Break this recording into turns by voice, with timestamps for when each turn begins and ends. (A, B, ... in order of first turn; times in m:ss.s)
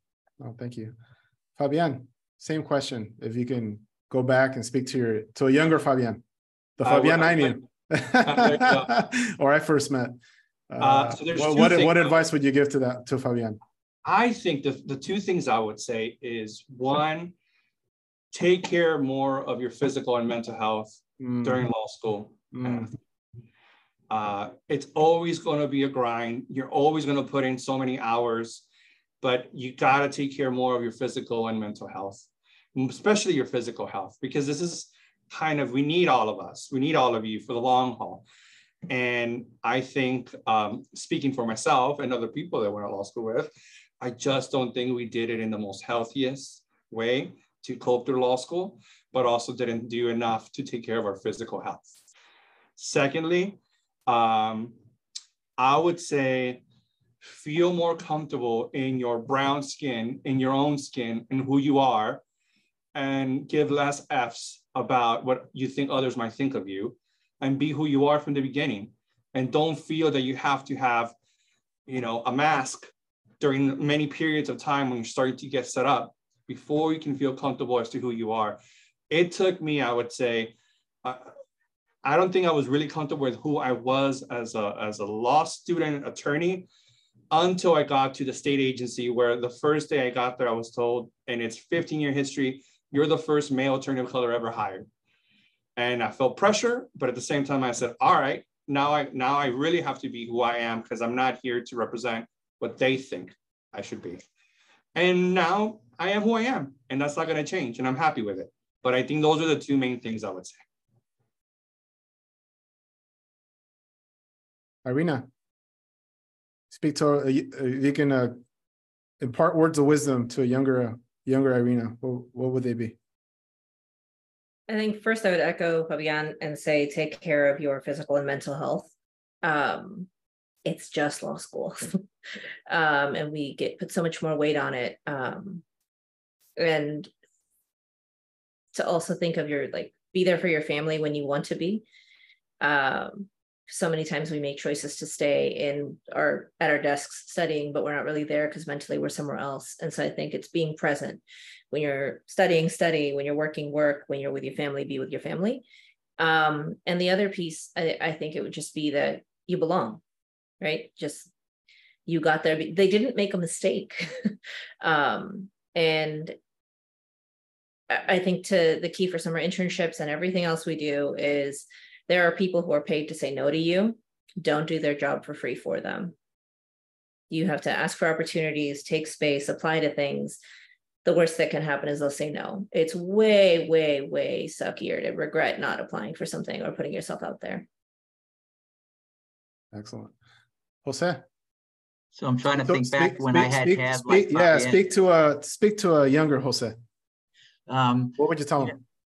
0:00.4-0:00.9 A
0:01.6-0:06.2 A
0:06.8-0:10.2 A
0:06.8-0:07.6 B
0:08.2-0:08.9 B
0:10.7-0:13.6 A
0:10.8-0:12.1 B
0:14.0-0:17.3 B
0:18.3-0:22.9 B
0:21.2-0:21.7 A
0:22.5-0:22.9 A
0:24.1-0:28.6 B
0:29.2-0:38.2 B
0:38.9-0:51.9 B
0:52.8-0:54.7 B
0:55.6-0:56.6 B
0:57.2-1:02.2 B
1:02.9-1:11.1 B
1:11.9-1:18.6 B
1:19.1-1:21.3 B
1:22.0-1:26.7 B
1:27.3-1:34.9 B
1:35.8-1:44.2 B
1:44.9-1:50.6 B
1:54.8-1:55.3 A
1:56.7-1:58.4 A
1:59.2-2:03.0 A
2:04.7-2:08.9 C
2:09.4-2:10.1 C
2:10.6-2:12.0 C
2:12.7-2:15.6 C
2:16.6-2:17.1 C
2:18.7-2:21.8 C
2:22.6-2:35.6 C
2:36.2-2:40.0 C
2:40.6-2:41.3 C
2:42.1-2:46.4 C
2:47.9-2:56.1 C
2:57.3-3:00.4 C
3:01.0-3:07.7 C
3:09.7-3:10.1 A
3:10.8-3:11.2 A
3:12.1-3:14.8 D
3:12.6-3:16.8 A
3:17.7-3:18.7 D
3:18.2-3:18.8 A